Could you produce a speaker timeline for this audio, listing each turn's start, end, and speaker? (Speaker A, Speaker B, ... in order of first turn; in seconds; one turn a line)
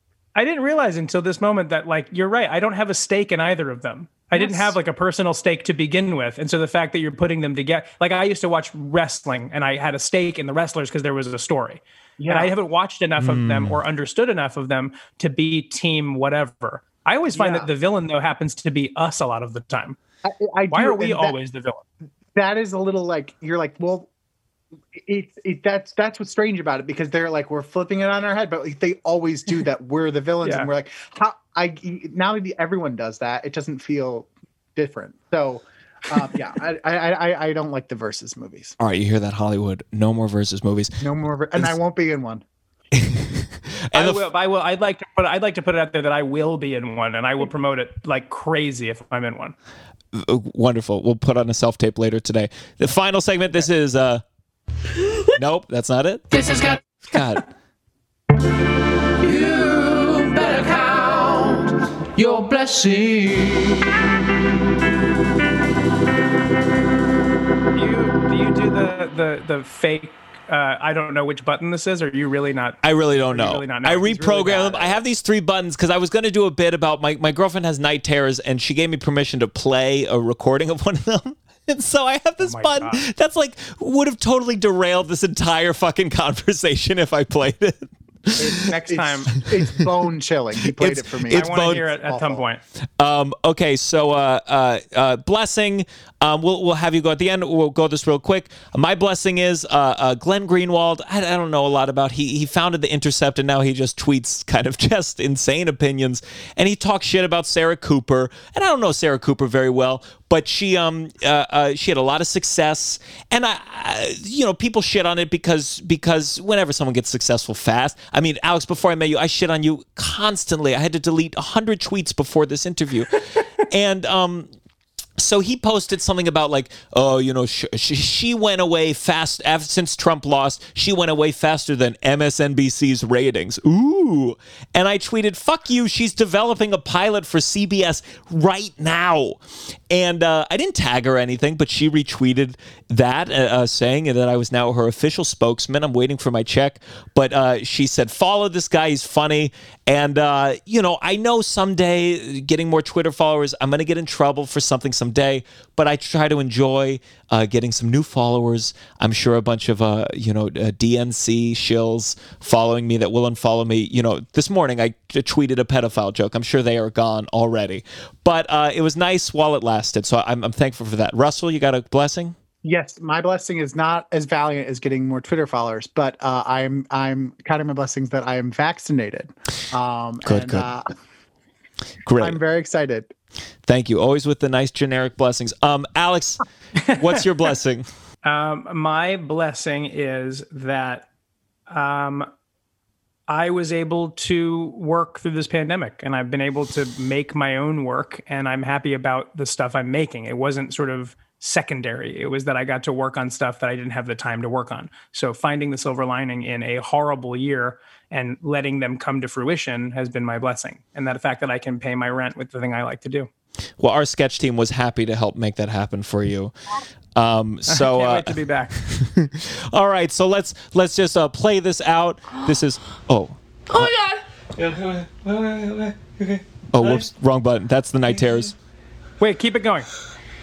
Speaker A: 0.3-20.0
Speaker B: 4.3-4.8
Speaker B: 12.2-12.5
Speaker C: 13.2-13.8
Speaker B: 17.4-17.7
Speaker B: 20.2-21.4
Speaker A: 20.7-21.8
Speaker B: 22.4-24.1
Speaker B: 24.9-38.8
Speaker A: 30.4-30.7
Speaker C: 38.8-41.0
Speaker B: 41.0-42.4
Speaker C: 42.9-44.3
Speaker A: 43.9-49.5
Speaker C: 50.1-54.2
Speaker C: 55.3-56.4
Speaker D: 56.3-56.8
Speaker C: 57.0-57.5
Speaker D: 59.2-64.0
Speaker A: 67.7-75.0
Speaker C: 72.8-88.7
Speaker A: 82.4-83.1
Speaker B: 88.4-92.4
Speaker A: 88.5-89.4
Speaker C: 90.7-91.8
Speaker A: 91.3-92.6
Speaker C: 93.0-124.5
Speaker C: 125.2-172.3
Speaker B: 172.6-180.8
Speaker C: 180.2-180.7
Speaker C: 182.1-182.4
Speaker B: 182.2-183.1
Speaker C: 183.7-187.9
Speaker A: 186.9-187.2
Speaker A: 188.2-191.1
Speaker A: 191.7-192.3
Speaker A: 193.3-213.3
Speaker C: 213.8-216.6
Speaker C: 217.2-224.0
Speaker A: 217.7-218.8
Speaker C: 224.6-228.6
Speaker A: 229.2-229.9